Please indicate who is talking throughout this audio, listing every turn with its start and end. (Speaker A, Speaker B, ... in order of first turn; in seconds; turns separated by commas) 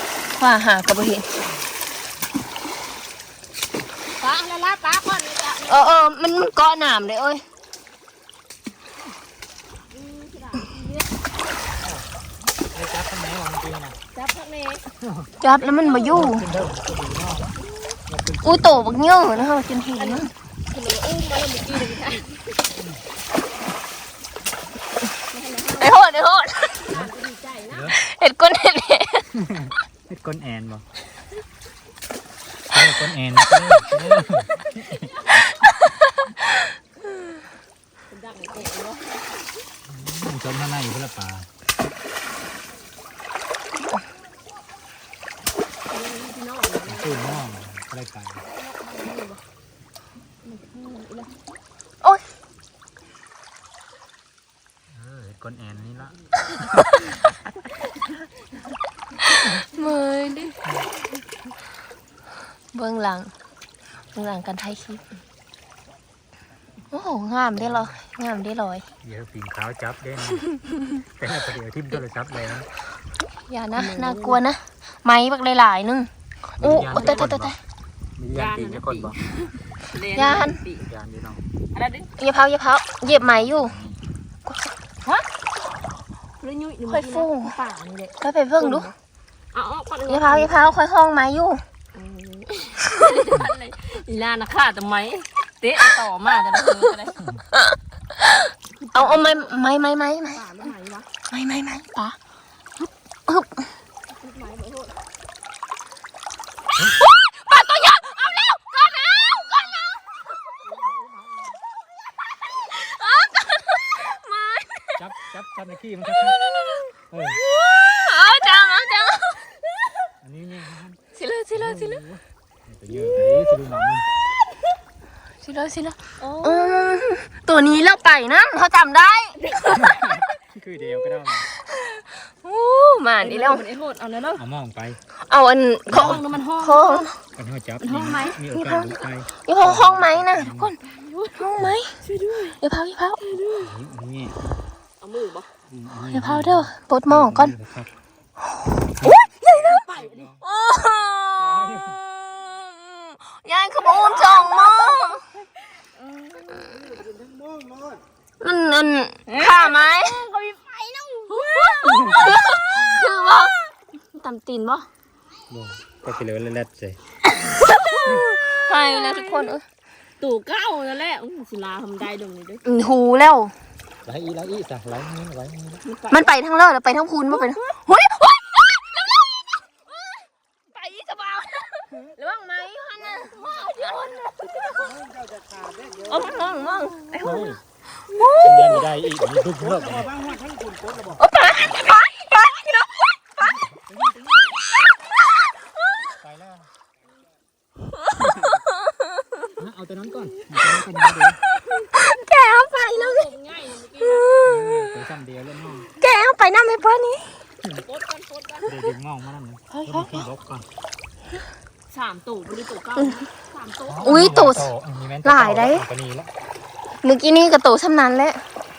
Speaker A: 0.4-1.3, Speaker B: 4.2-5.9, Speaker A: 5.7-7.4, Speaker B: 9.9-11.1, Speaker C: 12.7-14.0, Speaker B: 14.1-14.8, Speaker C: 15.0-15.3, Speaker A: 15.4-16.5, Speaker B: 15.6-16.2, Speaker C: 16.1-17.5, Speaker B: 17.6-17.9, Speaker C: 18.1-19.0, Speaker A: 18.4-20.3, Speaker B: 19.9-22.4, Speaker B: 25.3-26.0, Speaker A: 25.8-26.9, Speaker B: 26.8-27.9, Speaker C: 27.7-28.0, Speaker A: 28.0-29.3, Speaker C: 29.3-30.8, Speaker C: 32.7-35.1, Speaker B: 35.0-35.4, Speaker A: 35.6-36.7, Speaker B: 38.1-39.3, Speaker C: 39.9-41.5, Speaker B: 45.9-47.4, Speaker C: 46.9-48.4, Speaker B: 48.4-49.4, Speaker B: 50.4-51.3, Speaker C: 54.9-57.1, Speaker A: 59.4-60.5, Speaker A: 62.7-63.3, Speaker A: 64.1-65.0, Speaker A: 66.9-68.8, Speaker C: 67.6-67.9, Speaker C: 69.0-70.5, Speaker C: 71.2-72.7, Speaker A: 73.5-77.6, Speaker B: 73.7-74.4, Speaker C: 76.6-77.5, Speaker B: 76.7-77.3, Speaker C: 78.2-79.2, Speaker B: 78.3-80.8, Speaker A: 80.2-80.6, Speaker C: 80.8-81.4, Speaker B: 81.7-82.1, Speaker A: 82.2-83.8, Speaker C: 83.0-84.0, Speaker B: 86.4-88.9, Speaker A: 86.9-87.5, Speaker A: 88.2-88.9, Speaker B: 89.5-90.8, Speaker A: 90.1-91.6, Speaker B: 91.9-97.2, Speaker A: 97.5-100.7, Speaker B: 98.8-99.5, Speaker B: 100.3-101.1, Speaker A: 101.3-102.2, Speaker A: 103.3-103.7, Speaker B: 104.1-104.9, Speaker A: 107.0-110.2, Speaker C: 110.6-111.5, Speaker A: 112.7-115.0, Speaker C: 115.0-116.4, Speaker A: 116.1-119.5, Speaker C: 117.1-117.4, Speaker C: 120.2-121.0, Speaker A: 121.1-122.0, Speaker C: 121.5-124.0, Speaker A: 125.4-130.0, Speaker B: 126.2-127.0, Speaker B: 129.4-129.8, Speaker C: 129.7-131.5, Speaker A: 131.7-133.6, Speaker B: 133.2-134.4, Speaker C: 134.3-135.0, Speaker A: 135.2-137.2, Speaker B: 135.9-137.1, Speaker C: 135.9-136.3, Speaker C: 137.3-140.7, Speaker B: 137.8-138.4, Speaker A: 138.5-138.9, Speaker A: 139.4-140.8, Speaker B: 140.8-141.4, Speaker A: 141.4-141.9, Speaker B: 142.0-142.6, Speaker A: 142.6-143.2, Speaker B: 143.2-143.7, Speaker C: 143.6-144.6, Speaker B: 145.0-145.5, Speaker C: 145.7-147.9, Speaker A: 146.1-147.5, Speaker C: 148.9-149.2, Speaker A: 149.0-149.8, Speaker B: 149.4-150.4, Speaker A: 150.4-155.2, Speaker C: 151.4-152.0, Speaker B: 153.8-154.9, Speaker B: 156.0-156.6, Speaker D: 156.5-158.0, Speaker A: 158.4-160.2, Speaker B: 159.3-162.3, Speaker A: 161.3-163.6, Speaker C: 161.9-162.3, Speaker A: 164.1-164.9, Speaker C: 165.5-167.0, Speaker A: 167.6-169.6, Speaker B: 168.8-169.6, Speaker B: 170.2-172.6, Speaker A: 172.6-173.5, Speaker C: 174.1-175.8, Speaker B: 175.8-176.3, Speaker A: 176.1-179.4, Speaker B: 177.3-177.6, Speaker A: 180.7-184.9, Speaker D: 183.0-186.5, Speaker B: 183.3-184.2, Speaker A: 186.1-188.9, Speaker C: 187.2-187.6, Speaker C: 188.4-190.1, Speaker D: 189.6-191.2, Speaker A: 191.2-193.4, Speaker C: 193.7-194.3, Speaker C: 196.2-196.7, Speaker C: 198.2-198.6, Speaker C: 199.6-201.4, Speaker A: 201.9-203.3, Speaker B: 202.8-204.3, Speaker A: 204.0-205.0, Speaker C: 204.4-205.9, Speaker A: 206.0-207.4, Speaker B: 207.8-208.7, Speaker C: 208.7-210.7, Speaker A: 209.7-210.2, Speaker B: 211.9-214.3, Speaker C: 213.9-216.3, Speaker A: 214.0-214.7, Speaker A: 215.2-215.8, Speaker A: 217.0-218.4